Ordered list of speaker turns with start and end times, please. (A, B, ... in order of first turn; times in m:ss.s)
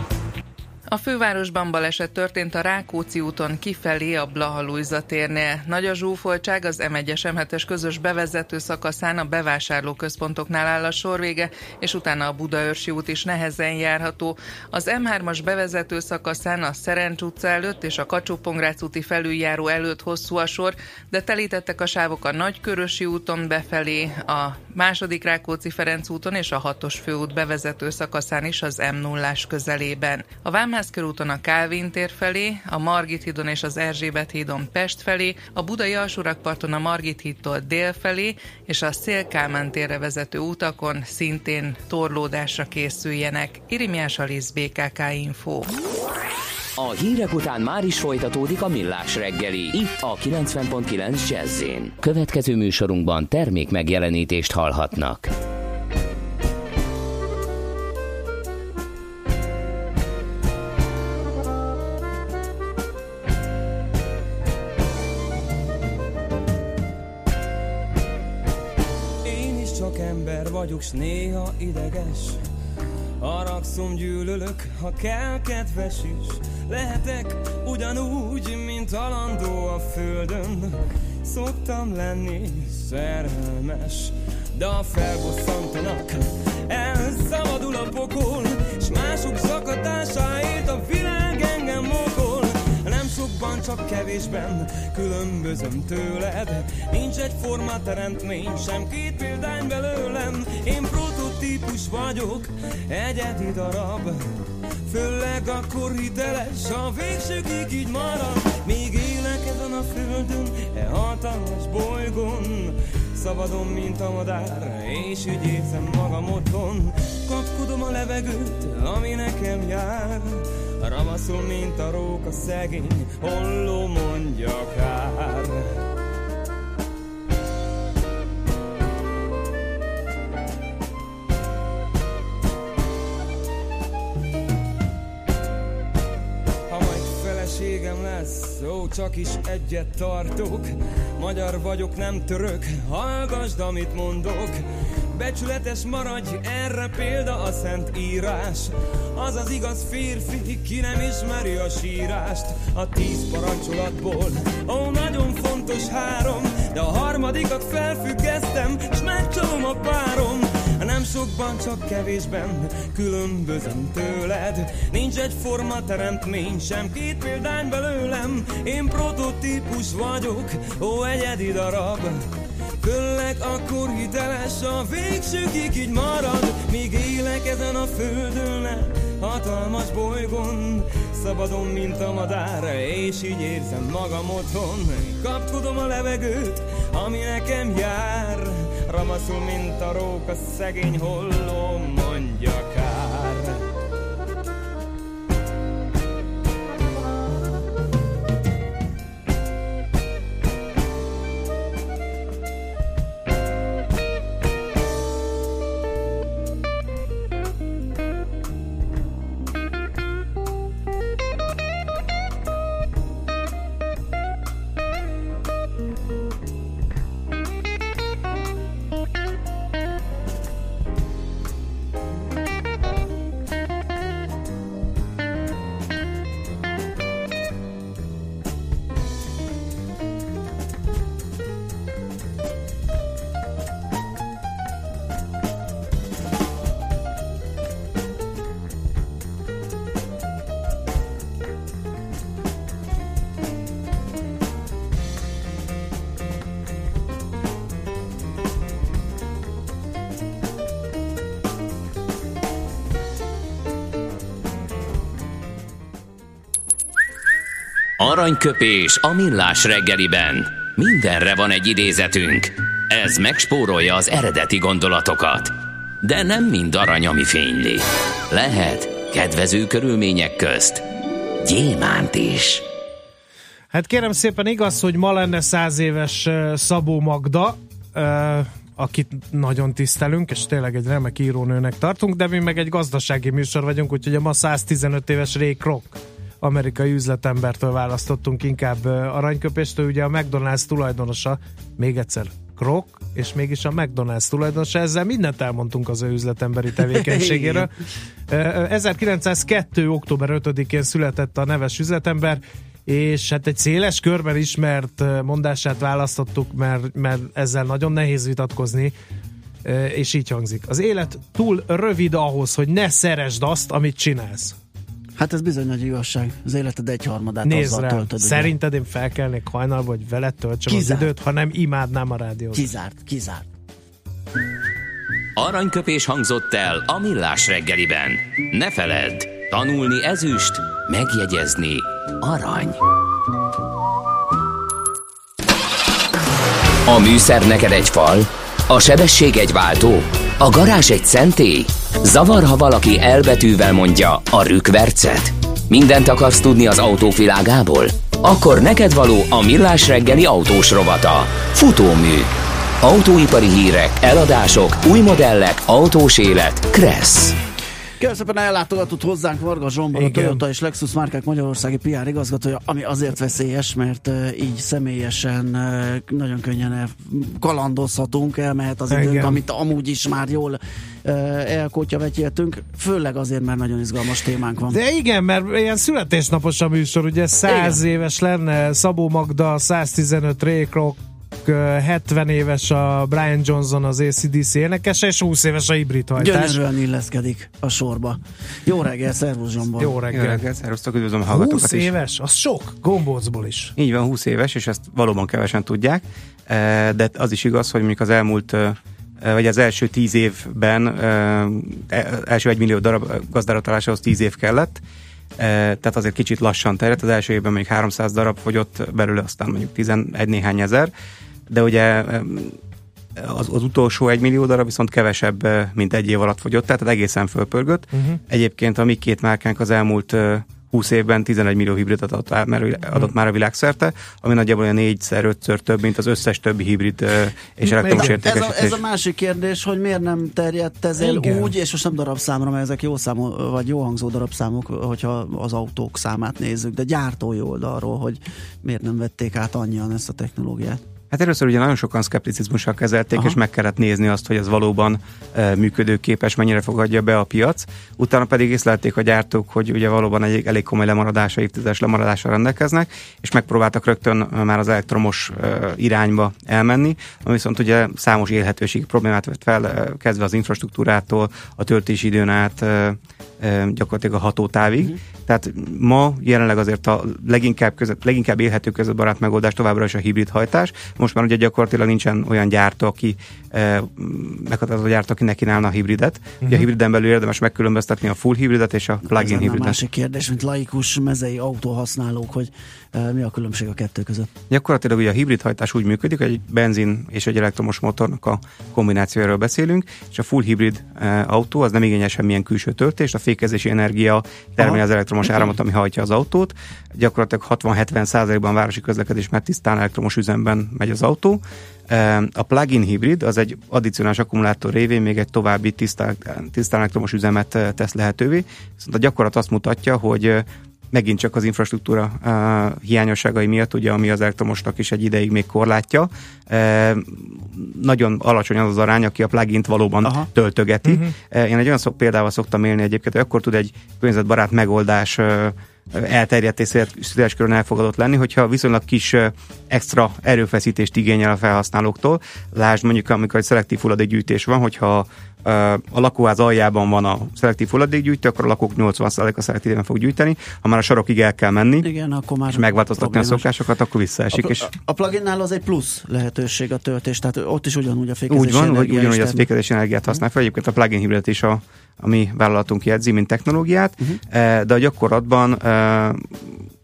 0:00.9-0:45.7 A
0:46.8-0:55.3 B
1:09.2-1:12.4 C
1:13.2-1:44.3 C
1:44.9-2:05.7 C
2:16.7-2:52.2 C
2:52.8-3:13.6 C
4:18.0-4:30.8 B
4:31.4-4:32.6 B
4:33.7-4:57.7 D
4:56.9-4:57.7 E
4:58.3-5:08.9 D
5:09.6-5:14.6 D
5:15.2-5:18.5 E
5:17.4-5:22.6 D
5:20.7-5:21.1 E
5:22.5-5:23.5 E
5:25.4-5:32.8 B
5:36.8-5:52.3 B
5:52.8-5:57.4 B
5:58.0-6:14.8 E
6:00.0-6:00.4 D
6:08.9-6:09.4 D
6:14.7-6:26.6 D
6:17.4-6:17.8 E
6:26.2-6:30.0 E
6:29.8-6:30.4 D
6:30.1-6:31.9 F
6:31.3-6:33.7 D
6:33.8-6:44.8 F
6:45.4-6:50.9 F
6:51.5-6:52.6 F
6:53.2-7:08.8 F
6:57.9-6:58.2 D
7:07.6-7:08.2 D
7:07.9-7:20.8 E
7:11.0-7:11.5 D
7:21.1-7:59.8 F
7:56.4-7:56.7 D
7:59.1-8:04.3 E
8:04.5-9:01.9 F
8:14.6-8:15.5 E
9:01.8-9:03.5 E
9:02.5-9:04.7 F
9:04.3-9:09.5 E
9:08.3-9:16.4 F